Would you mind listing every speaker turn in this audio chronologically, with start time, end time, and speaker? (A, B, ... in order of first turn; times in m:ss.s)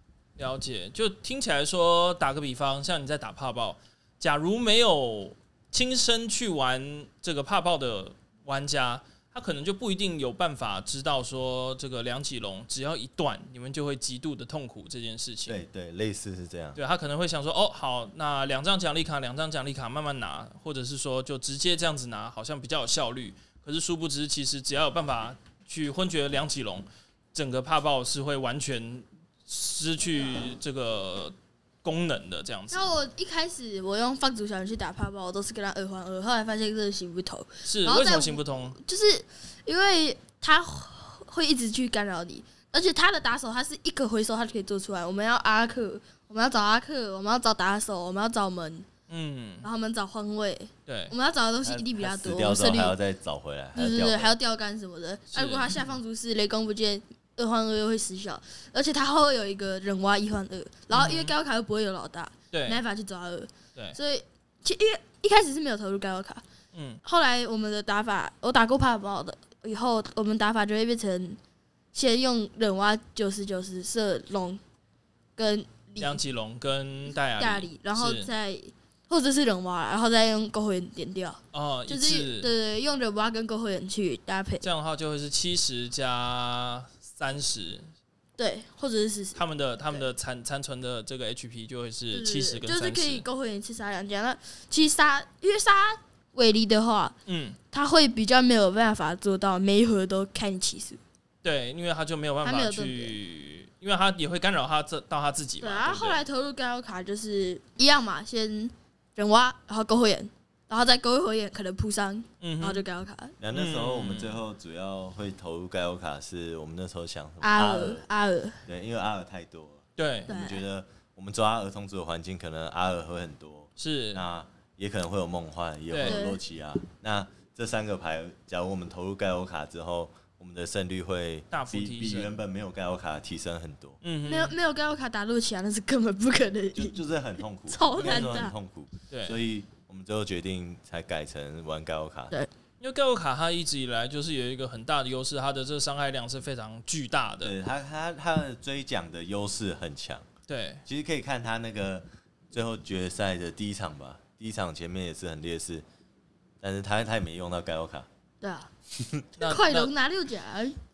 0:00.4-0:15.6 A
0:15.5-0:16.8 B
0:16.8-0:32.9 A
0:32.7-0:48.9 C
0:37.6-0:38.8 A
0:49.1-0:49.7 A
0:49.6-0:53.0 C
0:50.9-0:51.1 A
0:51.6-0:54.3 B
0:53.8-1:06.4 C
0:55.3-0:55.9 A
1:00.9-1:01.3 A
1:02.5-1:02.8 A
1:06.7-1:07.0 A
1:07.0-1:11.4 C
1:11.9-1:14.6 C
1:15.4-1:16.2 C
1:16.0-1:18.3 A
1:17.4-1:24.7 C
1:21.5-1:22.5 A
1:24.6-1:27.9 A
1:28.4-1:29.4 C
1:29.4-1:33.2 A
1:32.1-1:37.2 C
1:37.3-1:37.6 A
1:37.7-1:41.0 C
1:41.4-1:46.2 A
1:42.4-1:43.2 C
1:45.6-1:53.4 C
1:52.4-1:52.8 A
1:53.4-1:58.0 B
1:53.5-1:54.4 A
1:57.4-1:58.6 C
1:58.7-2:14.0 B
2:00.0-2:00.3 A
2:00.3-2:00.6 C
2:03.8-2:04.2 A
2:05.9-2:06.2 A
2:06.0-2:06.4 C
2:11.5-2:12.3 A
2:14.0-2:14.6 A
2:14.3-2:17.0 C
2:16.7-2:22.3 B
2:17.7-2:18.5 C
2:19.1-2:19.4 A
2:22.8-2:27.6 A
2:27.4-2:30.3 B
2:30.5-2:30.8 A
2:30.9-2:35.8 B
2:36.6-2:38.1 B
2:38.4-2:38.7 C
2:39.0-2:39.3 B
2:39.4-2:39.9 A
2:39.4-2:40.8 C